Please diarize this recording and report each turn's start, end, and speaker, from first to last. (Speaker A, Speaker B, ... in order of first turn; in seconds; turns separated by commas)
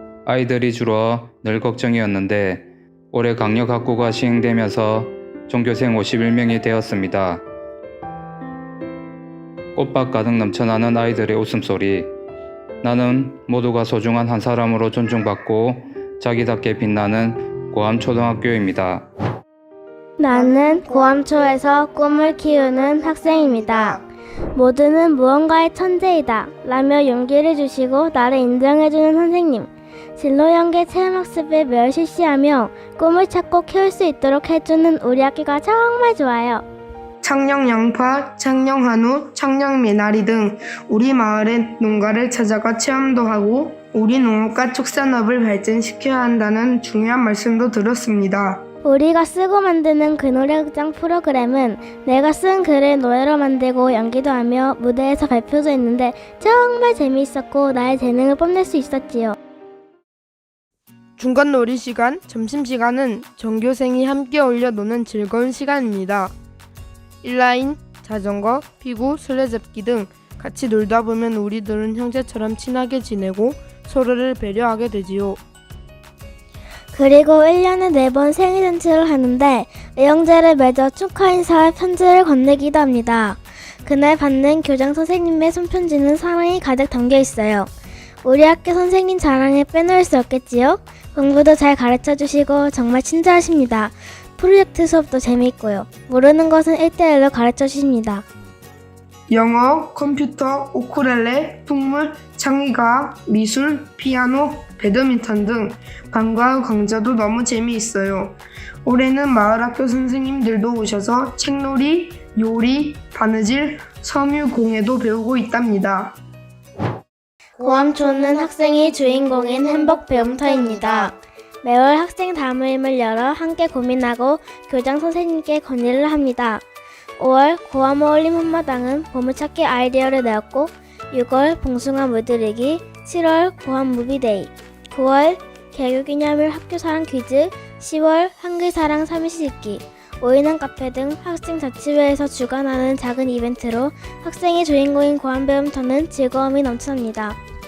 Speaker A: 0.3-7.4, Speaker A: 9.8-12.1, Speaker A: 12.8-19.1, Speaker B: 20.2-24.0, Speaker C: 22.4-23.8, Speaker B: 24.5-36.6, Speaker C: 37.2-48.6, Speaker B: 48.8-59.4, Speaker C: 61.2-66.3, Speaker C: 67.2-75.4, Speaker B: 76.9-87.7, Speaker B: 88.2-98.2, Speaker C: 99.3-116.2, Speaker B: 117.6-126.6, Speaker B: 127.2-147.4